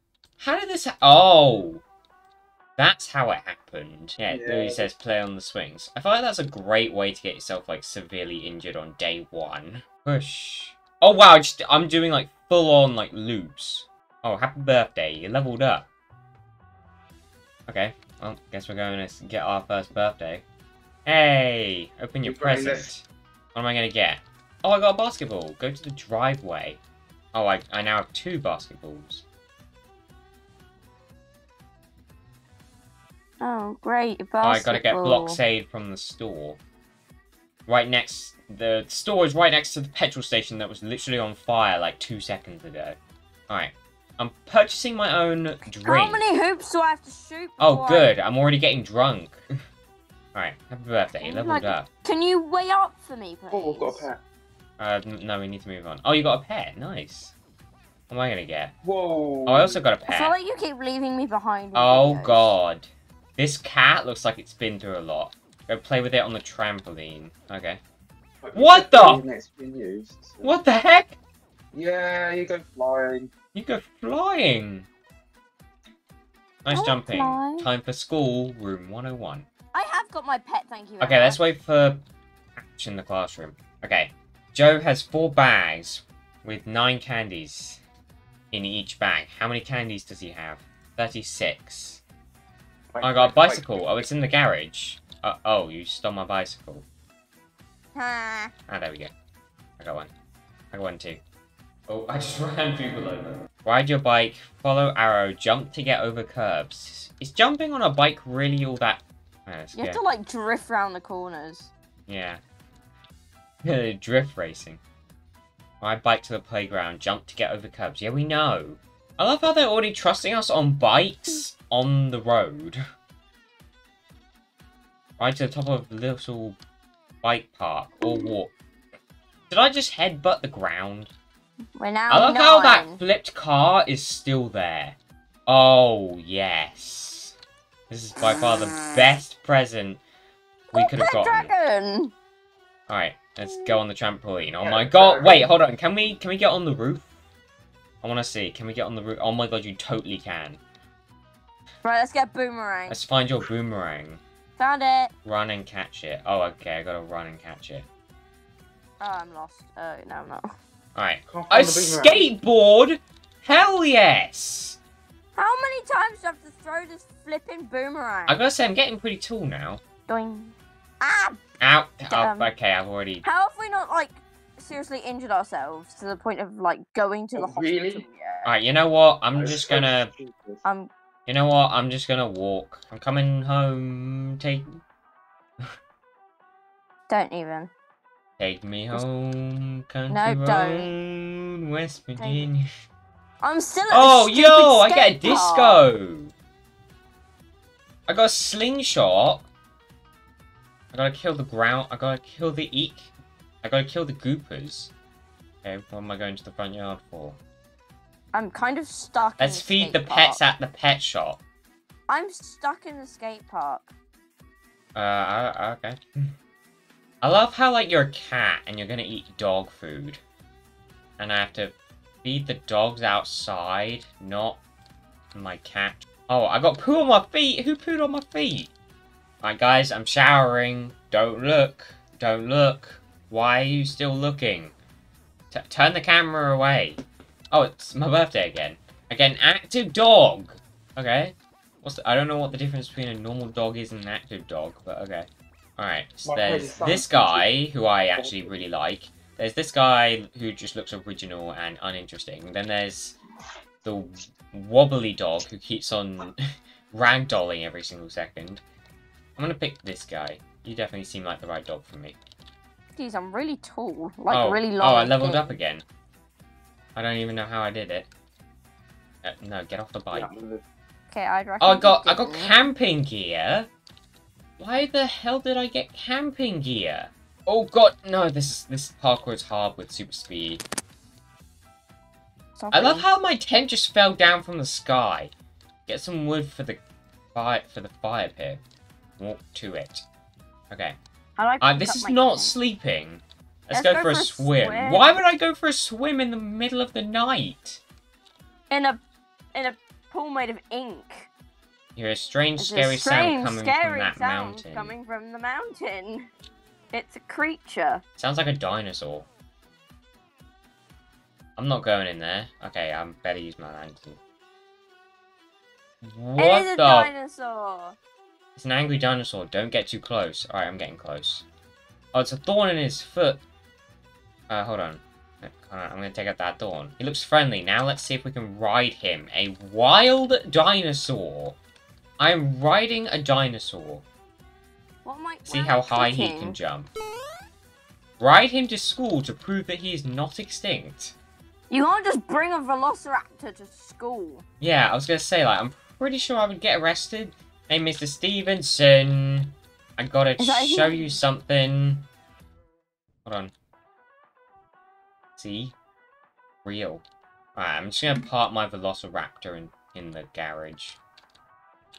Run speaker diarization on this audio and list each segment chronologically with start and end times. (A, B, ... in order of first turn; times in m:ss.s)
0:00.4-0:01.8 A
0:02.8-0:15.9 A
0:04.3-0:04.9 B
0:17.7-0:20.4 A
0:21.0-0:26.8 A
0:22.2-0:22.9 B
0:27.3-0:29.2 A
0:33.4-0:35.4 C
0:34.4-0:36.6 A
0:37.7-0:46.2 A
0:45.8-0:48.1 C
0:47.6-0:49.4 A
0:50.3-0:51.9 A
0:51.2-0:54.1 C
0:53.5-0:54.2 B
0:54.8-0:57.3 A
0:58.1-0:58.7 A
0:58.8-0:59.8 B
0:59.4-1:00.4 A
1:00.1-1:02.6 C
1:01.7-1:07.8 A
1:08.4-1:10.6 B
1:08.5-1:09.2 A
1:10.4-1:11.2 A
1:11.7-1:13.3 B
1:13.5-1:14.9 A
1:16.6-1:19.5 A
1:16.7-1:17.7 C
1:19.7-1:21.4 C
1:21.0-1:22.0 A
1:22.6-1:27.8 A
1:28.5-1:32.0 A
1:32.9-1:33.8 B
1:33.0-1:36.9 A
1:37.9-1:38.5 C
1:38.7-1:39.1 A
1:39.8-1:40.1 A
1:40.7-1:41.2 A
1:41.9-1:50.0 A
1:49.7-1:51.7 C
1:52.1-1:52.4 A
1:53.6-1:54.8 A
1:55.8-2:02.8 A
2:05.2-2:06.6 A
2:07.2-2:08.5 A
2:08.0-2:08.3 C
2:09.5-2:11.1 A
2:11.8-2:13.0 C
2:12.1-2:17.4 A
2:17.9-2:20.0 A
2:18.4-2:18.8 C
2:20.7-2:22.1 C
2:20.7-2:21.5 A
2:22.9-2:27.1 A
2:24.6-2:25.5 B
2:28.0-2:30.6 A
2:31.8-2:33.0 C
2:32.9-2:34.2 A
2:34.6-2:35.1 C
2:35.2-2:37.9 A
2:39.0-2:40.4 C
2:41.0-2:44.8 A
2:41.3-2:42.3 B
2:45.3-2:48.4 C
2:48.3-2:49.8 A
2:50.1-2:51.4 C
2:51.6-2:53.2 A
2:52.1-2:52.5 C
2:53.2-2:58.5 C
2:57.3-2:58.0 B
2:58.4-3:00.1 A
2:59.4-3:00.6 B
3:00.6-3:00.9 C
3:01.3-3:04.8 A
3:07.1-3:07.7 C
3:08.4-3:12.6 A
3:10.1-3:10.9 C
3:12.2-3:12.5 C
3:13.4-3:15.9 C
3:13.9-3:16.3 A
3:18.1-3:19.5 A
3:20.9-3:23.1 A
3:23.6-3:24.9 A
3:25.6-3:27.4 A
3:28.3-3:30.5 C
3:29.4-3:31.4 A
3:32.1-3:33.9 C
3:35.0-3:36.3 A
3:37.2-3:40.2 A
3:41.2-3:44.6 A
3:45.3-3:48.7 A
3:49.4-3:54.8 A
3:55.5-3:57.0 A
3:57.5-4:13.2 A
4:06.2-4:07.5 B
4:08.2-4:08.6 B
4:13.8-4:16.4 A
4:16.9-4:18.6 A
4:19.4-4:22.2 A
4:22.9-4:25.6 C
4:24.3-4:25.8 A
4:26.9-4:28.1 A
4:29.2-4:30.3 A
4:30.1-4:30.6 B
4:31.1-4:32.6 C
4:31.6-4:33.7 A
4:34.6-4:40.6 A
4:42.6-4:43.1 C
4:42.7-4:45.3 A
4:45.9-4:46.8 A
4:47.3-4:48.6 A
4:49.2-4:50.0 A
4:50.7-4:51.0 A
4:51.4-4:52.6 C
4:51.6-4:57.8 A
4:53.7-4:55.2 C
4:58.7-4:59.0 C
4:59.5-5:01.3 C
5:02.0-5:05.0 A
5:02.6-5:06.3 C
5:06.9-5:08.0 C
5:08.2-5:09.3 A
5:11.6-5:14.2 A
5:16.0-5:17.1 A
5:16.4-5:18.0 C
5:18.6-5:21.4 A
5:22.1-5:23.4 A
5:24.5-5:31.6 A
5:32.2-5:34.0 A
5:35.0-5:36.6 C
5:35.5-5:36.9 A
5:38.2-5:41.2 A
5:41.7-5:44.4 C
5:44.6-5:52.1 A
5:50.4-5:51.2 C
5:53.2-5:53.5 A
5:55.4-5:55.8 A
5:56.6-5:57.0 A
5:57.6-6:01.0 A